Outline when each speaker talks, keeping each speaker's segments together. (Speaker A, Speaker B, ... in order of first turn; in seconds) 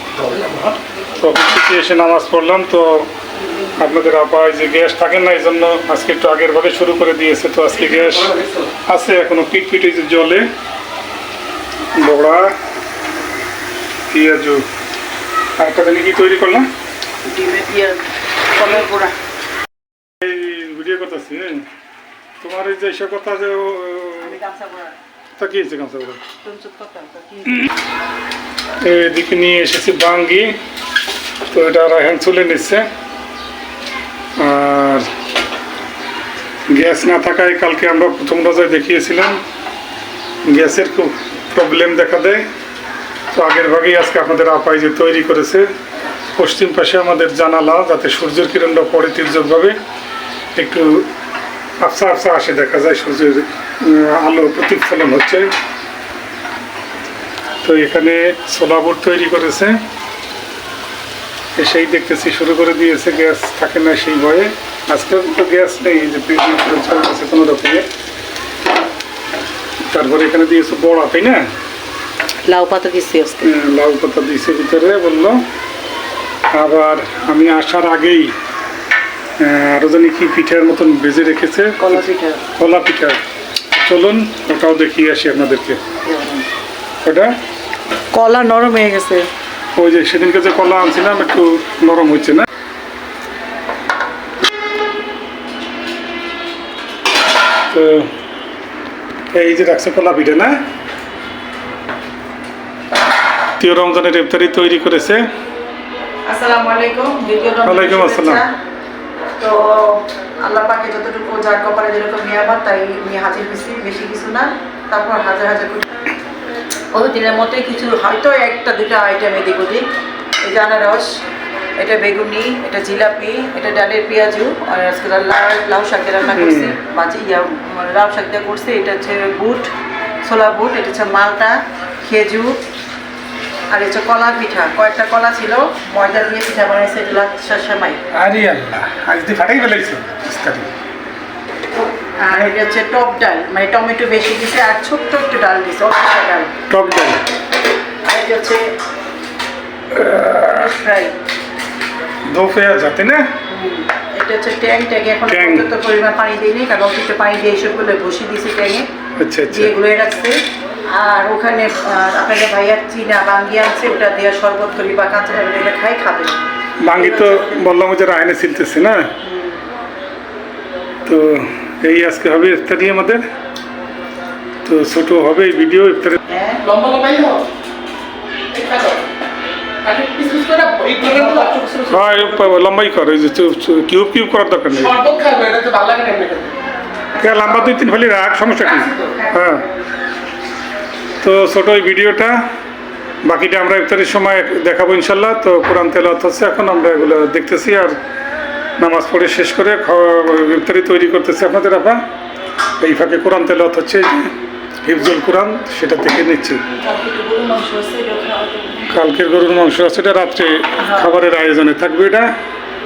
Speaker A: 0.2-0.7, 7.8-8.7, 176.6-177.5, 178.5-179.1, 179.8-181.8, 184.8-186.6, 188.6-189.2
Speaker B: 1.2-3.1, 3.8-8.3, 8.8-10.5, 11.9-12.5, 14.1-14.7, 15.6-16.7, 20.2-21.7, 22.4-24.4, 25.4-26.2, 28.8-30.6, 31.5-32.9, 34.4-35.1, 36.7-39.4, 40.5-42.5, 43.3-45.7, 46.4-49.8, 50.5-51.1, 51.8-55.5, 57.6-59.8, 61.6-67.9, 69.9-71.5, 73.4-75.4, 76.5-78.3, 79.4-82.0, 82.6-83.2, 83.8-85.8, 87.0-87.3, 89.8-92.5, 97.7-98.1, 99.3-100.6, 103.6-105.3, 107.6-108.4, 126.3-126.8, 138.1-140.7, 146.7-147.2, 149.9-150.7, 152.3-153.3, 155.3-155.7, 159.2-159.7, 166.8-169.1, 171.1-173.2, 174.7-176.2, 181.9-184.9, 187.2-189.7, 191.2-192.4, 193.2-198.0, 198.8-202.0, 202.8-206.6, 208.9-212.3
Speaker C: 17.2-18.0, 18.6-19.1, 24.2-25.0, 26.4-27.7, 72.5-73.5, 81.8-82.5, 86.0-86.5, 88.1-89.3, 106.3-108.5, 109.4-115.9, 116.9-119.8, 120.4-121.1, 121.8-129.7, 130.2-132.5, 133.7-138.0, 142.2-146.5, 148.0-148.6, 150.4-151.1, 153.5-158.9, 159.5-160.4, 160.9-166.4, 166.9-167.6, 169.2-169.6, 176.3-176.7, 181.1-182.2, 206.8-209.0, 210.8-211.2